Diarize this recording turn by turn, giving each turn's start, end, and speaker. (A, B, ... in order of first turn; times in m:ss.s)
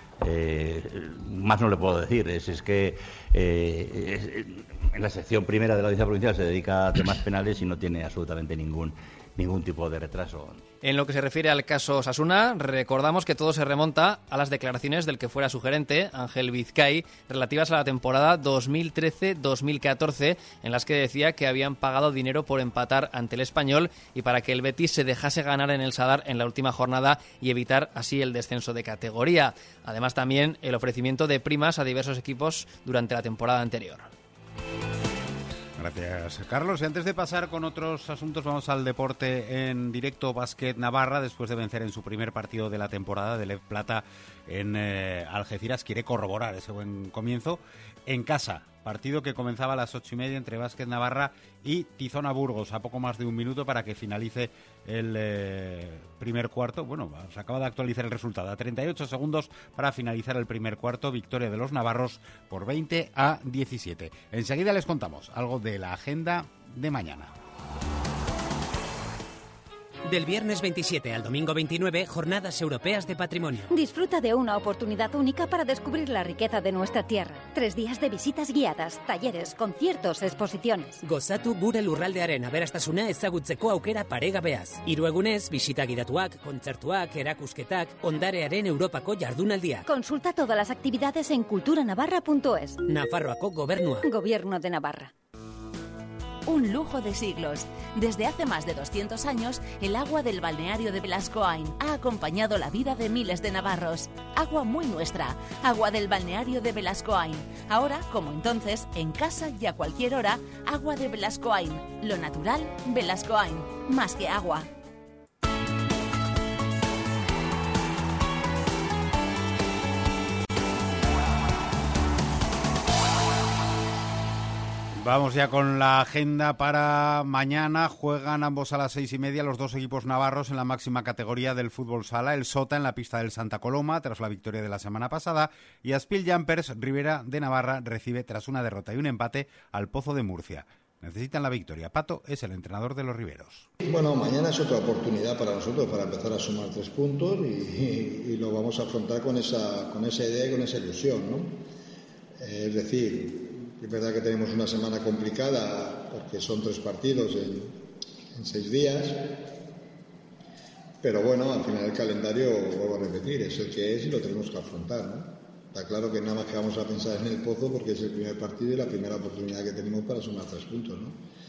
0:00.2-0:10.6 A
0:10.8-0:34.1 B
0:35.8-1:07.3 C
1:10.2-1:13.4 D
1:13.8-1:20.9 E
1:21.2-1:29.8 D
1:29.9-1:32.7 E
1:33.1-1:33.9 D
1:34.1-1:35.1 E
1:36.5-1:54.7 F
2:05.0-2:23.7 C
2:23.8-2:31.6 G
2:32.4-2:37.8 G
2:38.3-2:39.4 G
2:41.0-2:51.2 G